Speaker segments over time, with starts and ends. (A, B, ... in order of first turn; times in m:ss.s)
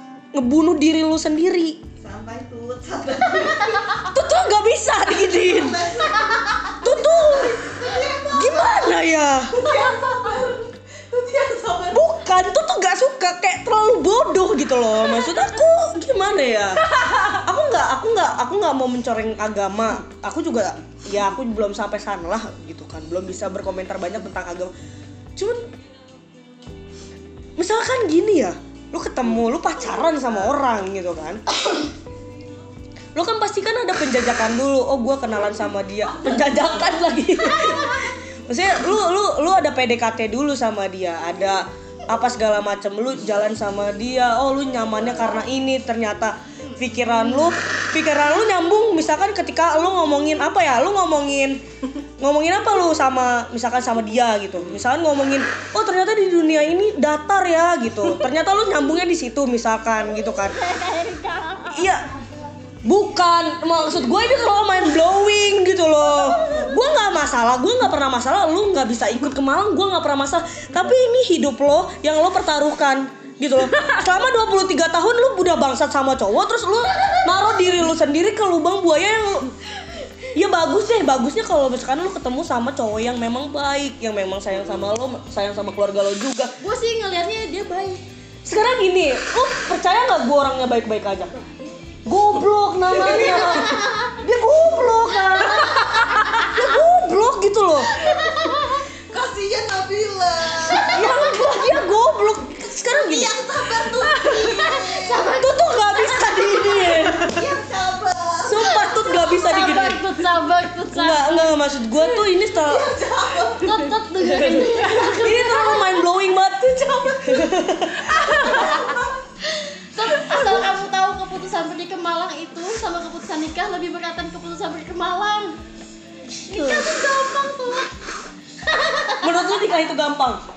0:00.3-0:01.8 A
0:02.0-0:04.0 B
0:03.9-0:05.8 A
0:05.3-0:08.9 B
0:06.8-0:07.6 A
0:08.3-0:09.6 A
0:09.5-0:12.0 B
0:11.9-0:24.7 A
0:25.4-0:25.7 A
0:27.6-0:31.4 A
0:33.1-0:51.6 A
0:52.2-1:00.6 A
1:00.6-1:01.9 C
1:01.7-1:02.1 A
1:02.8-1:19.5 A
1:16.9-1:17.3 C
1:20.3-1:26.5 A
1:26.6-1:28.0 C
1:28.4-1:31.4 A
1:32.0-1:38.1 A
1:32.9-1:33.5 B
1:33.6-1:34.1 C
1:38.0-1:38.8 C
1:39.1-1:41.6 B
1:40.7-1:41.2 C
1:40.9-1:43.3 A
1:43.0-1:45.2 B
1:44.2-1:46.1 C
1:45.4-1:47.4 A
1:46.2-1:48.9 B
1:48.4-1:50.1 A
1:48.8-1:52.0 C
1:50.9-1:52.9 A
1:52.6-1:53.9 B
1:53.6-1:55.9 C
1:54.3-1:58.7 A
1:54.8-1:55.3 B
1:57.0-1:59.2 B
1:59.4-2:05.6 C
2:00.3-2:00.6 B
2:06.4-2:07.9 C
2:06.5-2:07.0 A
2:08.6-2:09.4 C
2:09.2-2:10.4 A